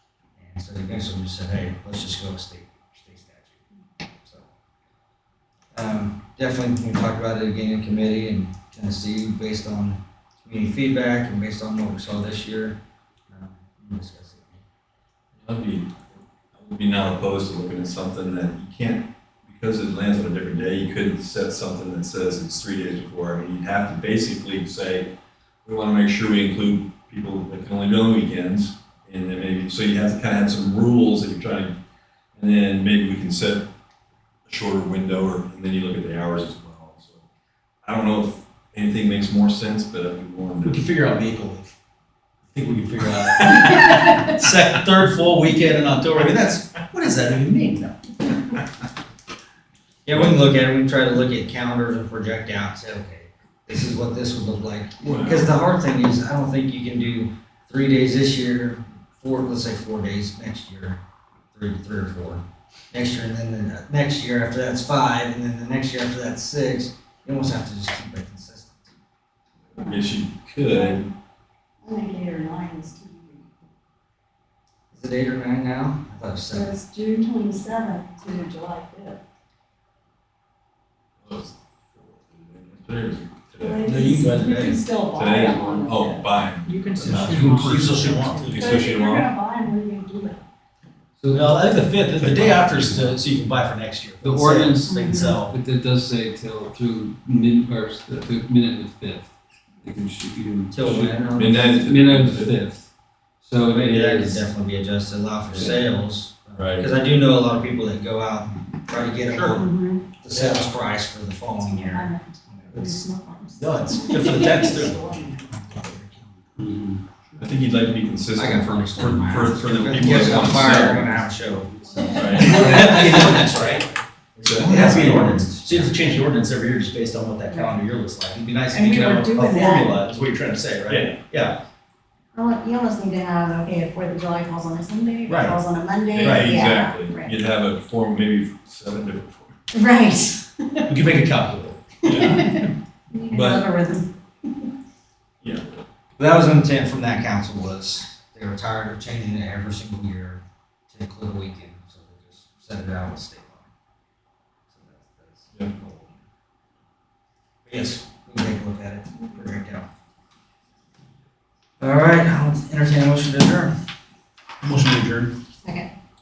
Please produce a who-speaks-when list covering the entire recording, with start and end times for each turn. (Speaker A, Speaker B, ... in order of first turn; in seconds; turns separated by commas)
Speaker A: 0.4-3.6, Speaker A: 4.2-4.5, Speaker A: 5.7-12.8, Speaker A: 13.3-14.6, Speaker B: 15.4-25.1, Speaker B: 25.6-31.7, Speaker B: 32.3-33.7, Speaker B: 34.5-37.2, Speaker B: 37.8-40.9, Speaker C: 40.6-41.7, Speaker C: 42.5-48.0, Speaker A: 50.0-61.0, Speaker B: 50.1-50.4, Speaker B: 55.0-55.5, Speaker A: 61.5-68.9, Speaker B: 69.7-71.1, Speaker D: 69.8-70.1, Speaker D: 70.6-71.0, Speaker D: 71.8-73.5, Speaker A: 74.9-76.8, Speaker D: 76.5-79.2, Speaker B: 81.2-83.8, Speaker D: 83.6-87.8, Speaker C: 83.8-84.8, Speaker B: 85.1-89.3, Speaker E: 87.0-88.4, Speaker C: 87.0-88.7, Speaker D: 88.3-90.4, Speaker E: 91.2-93.2, Speaker C: 91.3-95.5, Speaker E: 94.2-101.1, Speaker D: 94.8-95.3, Speaker A: 100.7-101.8, Speaker B: 100.8-102.5, Speaker E: 101.8-102.9, Speaker E: 103.4-104.4, Speaker A: 103.7-109.7, Speaker B: 106.6-106.9, Speaker D: 109.4-110.0, Speaker A: 110.2-112.7, Speaker C: 110.3-110.7, Speaker D: 111.6-115.3, Speaker C: 113.6-116.6, Speaker E: 116.7-116.9, Speaker B: 117.4-121.3, Speaker A: 118.3-123.8, Speaker E: 120.3-120.6, Speaker D: 122.0-122.6, Speaker B: 122.0-122.7, Speaker C: 122.2-131.6, Speaker B: 124.4-125.3, Speaker A: 124.6-125.9, Speaker D: 128.7-129.9, Speaker D: 132.3-137.3, Speaker C: 135.3-135.6, Speaker B: 136.1-139.6, Speaker C: 136.2-136.5, Speaker D: 139.7-140.5, Speaker C: 140.9-142.3, Speaker B: 142.0-142.5, Speaker D: 142.1-144.1, Speaker C: 143.3-143.6, Speaker B: 145.4-145.8, Speaker A: 146.2-153.7, Speaker A: 154.7-156.1, Speaker A: 157.7-159.9, Speaker A: 161.8-163.7, Speaker C: 164.6-165.3, Speaker D: 165.6-165.9